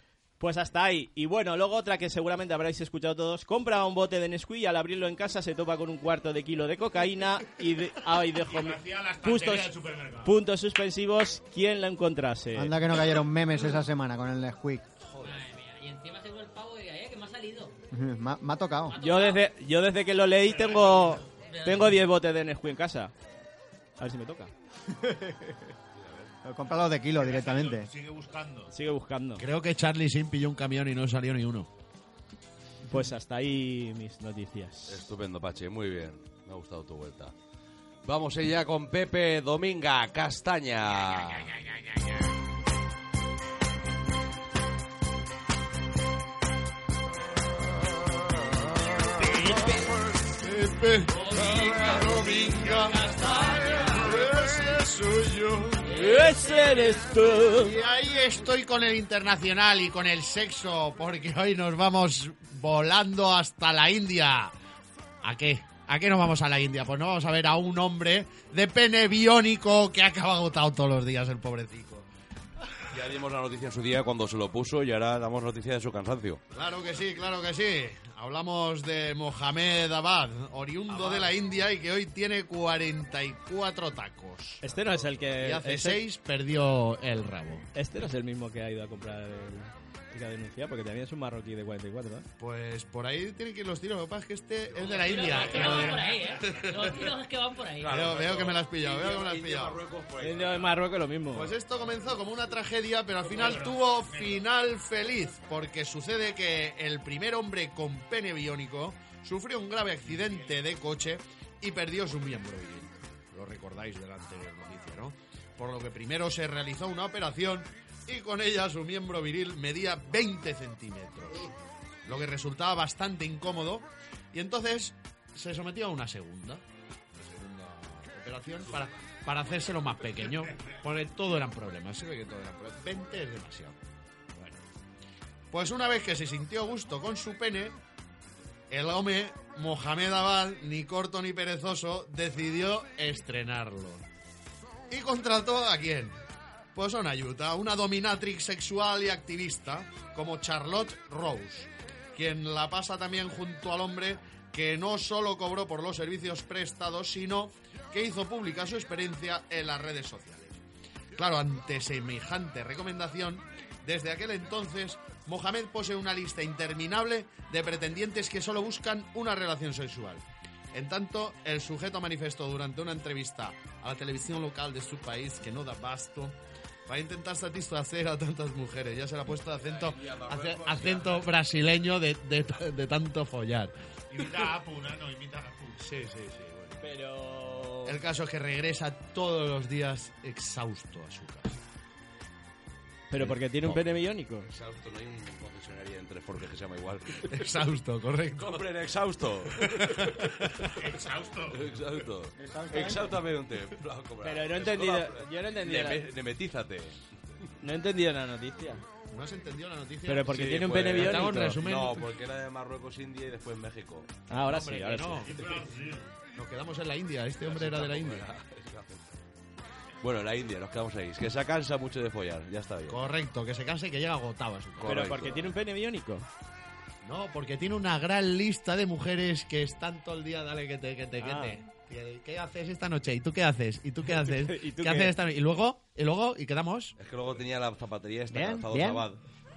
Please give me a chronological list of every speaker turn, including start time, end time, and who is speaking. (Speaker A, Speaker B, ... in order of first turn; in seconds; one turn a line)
Speaker A: 0.4-9.7
Speaker B: 8.4-10.3
Speaker A: 10.2-12.8
Speaker C: 12.6-14.9
Speaker D: 15.2-17.8
Speaker C: 17.9-19.0
Speaker D: 18.9-19.5
Speaker A: 19.0-23.1
Speaker B: 20.5-21.2
Speaker D: 21.4-21.9
Speaker A: 24.0-24.5
Speaker C: 25.0-25.3
Speaker E: 25.9-26.3
Speaker C: 26.4-27.9
Speaker B: 27.1-28.7
Speaker A: 28.7-29.4
Speaker F: 29.4-31.7
Speaker A: 32.9-35.1
Speaker E: 34.9-37.3
Speaker E: 38.0-41.6
Speaker A: 49.2-49.8
Speaker F: 50.4-53.1
Speaker D: 51.1-54.2
Speaker F: 53.7-55.9
Speaker D: 55.9-56.9
Speaker A: 55.9-57.8
Speaker F: 57.6-64.5
Speaker F: 65.2-72.1
Speaker E: 72.9-76.4
Speaker F: 76.5-87.7
Speaker A: 84.6-86.0
Speaker A: 87.7-92.3
Speaker F: 92.4-97.0
Speaker D: 94.9-98.0
Speaker E: 97.8-100.8
Speaker F: 97.9-99.8
Speaker A: 100.2-101.5
Speaker F: 101.3-121.5
Speaker B: 103.3-104.4
Speaker F: 122.0-126.6
Speaker F: 127.2-133.8
Speaker F: 134.3-134.6
Speaker F: 135.5-137.8
Speaker F: 138.7-144.0
Speaker F: 144.9-146.2
Speaker F: 146.8-160.6
Speaker F: 161.2-183.7
Speaker E: 179.6-181.4
Speaker B: 184.1-185.8
Speaker F: 185.8-186.8
Speaker A: 186.8-188.0
Speaker F: 187.8-191.6
Speaker A: 193.1-194.5
Speaker E: 193.2-197.3
Speaker F: 197.3-198.7
Speaker E: 198.3-200.2
Speaker F: 199.6-200.7
Speaker B: 200.8-201.6
Speaker E: 201.5-207.0
Speaker C: 202.4-203.2
Speaker A: 204.2-206.0
Speaker A: 207.6-208.8
Speaker F: 209.1-212.1
Speaker A: 210.1-211.6
Speaker E: 210.3-214.1
Speaker A: 214.3-215.3
Speaker F: 214.4-215.6
Speaker B: 215.2-216.1
Speaker F: 216.3-218.2
Speaker E: 217.4-219.2
Speaker E: 220.0-223.0
Speaker F: 222.9-225.3
Speaker E: 224.8-225.5
Speaker A: 224.8-226.3
Speaker F: 227.0-236.9
Speaker A: 231.2-231.6
Speaker A: 234.1-235.1
Speaker E: 237.0-239.2
Speaker C: 238.3-239.1